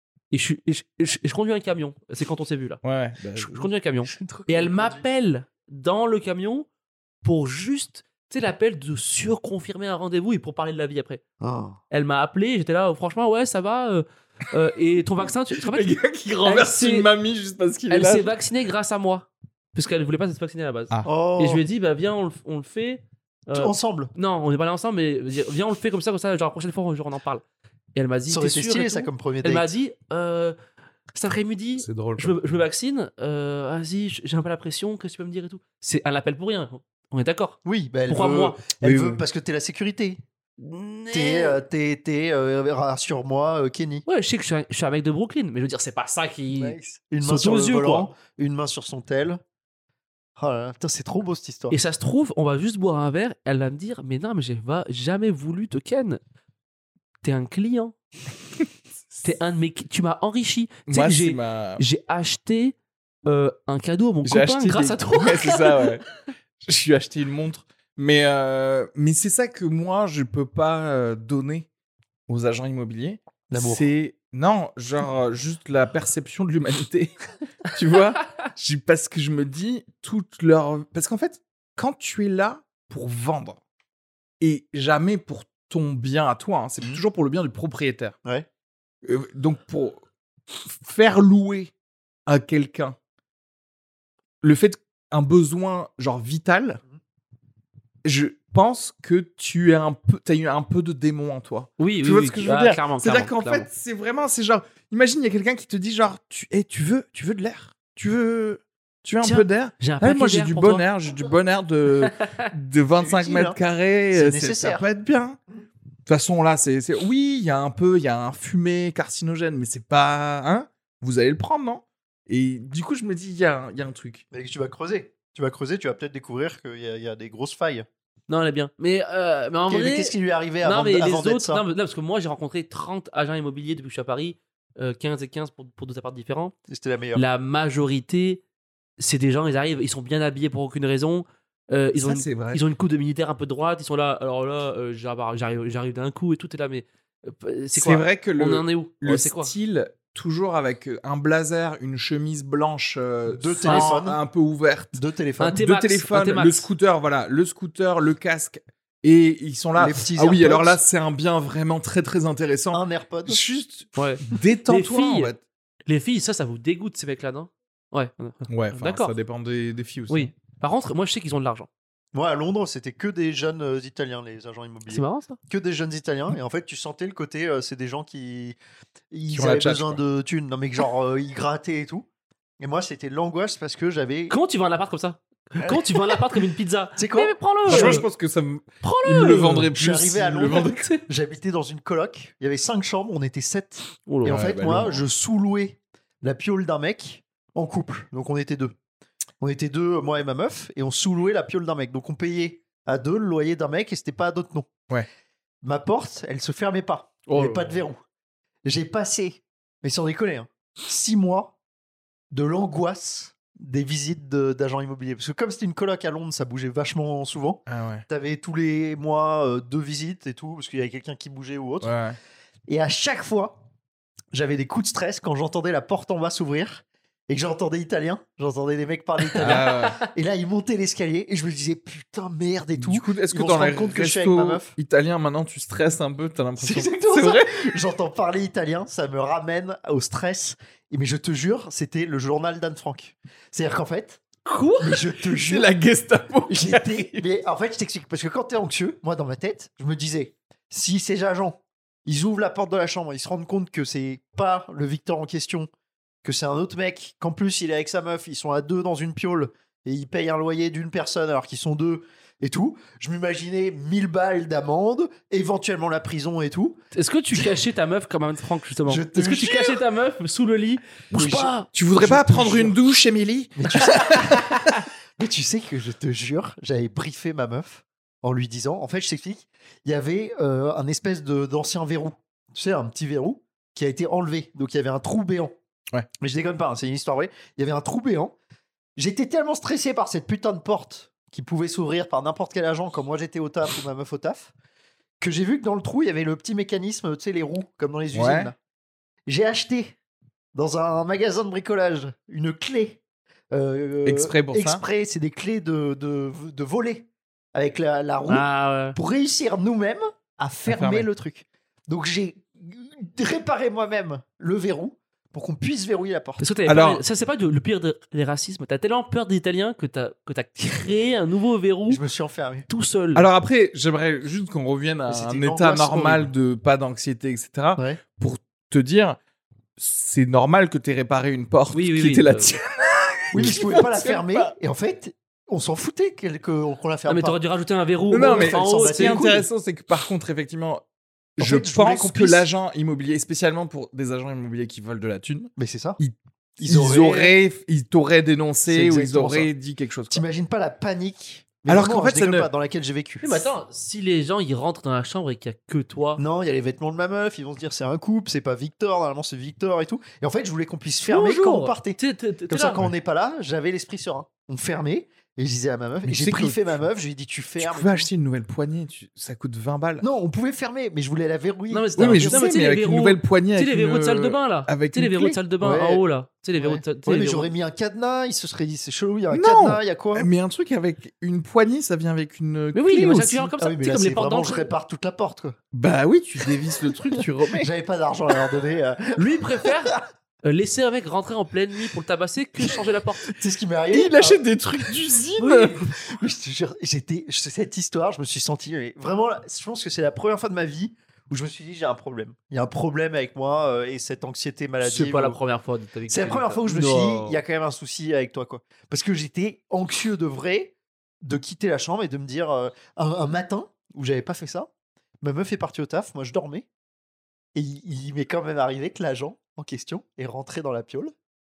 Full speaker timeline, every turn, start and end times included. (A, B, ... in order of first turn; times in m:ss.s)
0:00.3-0:02.8 A
0:02.8-0:03.7 B
0:03.4-0:06.7 A
0:04.1-0:05.0 C
0:07.2-0:11.2 A
0:11.4-0:11.8 C
0:11.9-0:17.1 A
0:15.5-0:18.3 B
0:17.9-0:27.4 A
0:21.0-0:21.6 C
0:23.5-0:24.1 C
0:27.9-0:30.5 A
0:28.3-0:29.7 C
0:31.1-0:38.6 A
0:31.8-0:32.4 B
0:37.6-0:40.2 C
0:38.8-0:39.2 B
0:40.6-0:41.6 A
0:41.1-0:44.0 C
0:44.0-0:48.1 A
0:46.5-0:49.4 C
0:50.4-0:51.8 C
0:51.7-0:56.2 A
0:57.2-0:57.9 A
0:59.2-1:05.9 A
1:00.9-1:01.8 B
1:04.2-1:06.0 B
1:06.6-1:11.7 B
1:12.3-1:17.1 B
1:13.5-1:13.9 C
1:17.6-1:23.6 B
1:24.4-1:28.1 B
1:29.0-1:30.0 B
1:30.6-1:31.7 B
1:32.3-1:33.0 B
1:34.4-1:36.8 B
1:38.0-1:55.4 B
1:41.8-1:43.7 A
1:49.2-1:50.8 A
1:53.0-1:53.6 C
1:54.1-1:54.8 C
1:56.1-2:04.2 B
2:04.3-2:07.9 C
2:08.3-2:16.5 A
2:09.7-2:11.6 C
2:16.7-2:17.2 C
2:17.1-2:18.4 A
2:19.0-2:29.5 A
2:22.0-2:22.6 B
2:27.8-2:35.0 B
2:33.3-2:34.2 C
2:33.6-2:33.9 A
2:34.9-2:35.6 C
2:35.4-2:36.7 A
2:35.5-2:45.4 B
2:39.8-2:40.8 C
2:42.7-2:43.4 C
2:43.9-2:45.3 A
2:45.9-2:49.1 A
2:48.5-2:50.3 B
2:50.1-2:51.7 A
2:52.1-2:58.6 C
2:54.9-2:55.4 A
2:59.1-3:02.1 C
2:59.3-3:00.0 B
3:02.6-3:04.4 C
3:04.3-3:08.0 A
3:07.0-3:08.0 C
3:07.6-3:10.8 B
3:08.8-3:09.7 A
3:09.7-3:18.7 C
3:10.4-3:11.0 A
3:14.1-3:14.4 A
3:14.2-3:15.0 B
3:19.4-3:24.7 C
3:25.6-3:28.0 C
3:27.3-3:27.8 A
3:28.6-3:31.6 C
3:32.3-3:41.9 C
3:37.7-3:38.0 B
3:41.8-3:42.2 B
3:42.7-3:43.6 C
3:44.3-3:54.7 C
3:49.4-3:50.0 A
3:49.4-3:50.0 B
3:52.8-3:57.7 B
3:56.6-4:04.2 C
4:04.4-4:05.0 A
4:04.8-4:05.7 C
4:05.4-4:07.2 B
4:06.5-4:15.7 C
4:16.2-4:26.8 C
4:26.9-4:31.7 A
4:28.8-4:29.8 C
4:31.1-4:32.8 C
4:31.7-4:34.5 B
4:33.6-4:45.5 C
4:46.2-4:48.3 C
4:49.0-4:54.5 C
4:55.2-4:58.5 C
4:58.1-4:58.5 B
4:59.3-4:59.9 C
5:00.5-5:03.0 C
5:03.5-5:16.5 C
5:04.0-5:04.8 B
5:08.3-5:09.0 A
5:10.7-5:11.1 B
5:16.4-5:22.0 A
5:16.6-5:17.0 B
5:21.9-5:22.7 C
5:22.7-5:23.2 A
5:23.1-5:29.2 B
5:25.1-5:26.3 C
5:29.8-5:34.5 B
5:31.7-5:32.6 A
5:33.3-5:37.4 C
5:37.1-5:39.2 A
5:38.1-5:40.8 B
5:38.1-5:39.5 C
5:41.4-5:50.2 B
5:41.4-5:42.5 C
5:45.6-5:46.0 C
5:46.6-5:47.3 C
5:48.7-5:49.5 C
5:50.1-5:53.5 C
5:51.7-5:52.5 B
5:53.2-5:56.2 A
5:56.2-6:08.1 C
6:01.1-6:02.8 A
6:06.0-6:06.6 B
6:07.6-6:10.0 B
6:10.0-6:12.5 C
6:11.7-6:17.5 A
6:12.0-6:15.4 B
6:15.6-6:16.0 C
6:16.6-6:20.3 C
6:19.3-6:23.5 B
6:22.7-6:24.7 A
6:23.6-6:25.6 C
6:25.7-6:27.7 B
6:27.2-6:29.9 C
6:29.2-6:33.2 A
6:32.6-6:34.4 C
6:33.9-6:35.8 B
6:35.4-6:35.9 A
6:36.0-6:45.4 C
6:44.8-6:47.4 A
6:46.1-6:54.7 C
6:55.2-6:56.6 C
6:57.5-7:01.1 C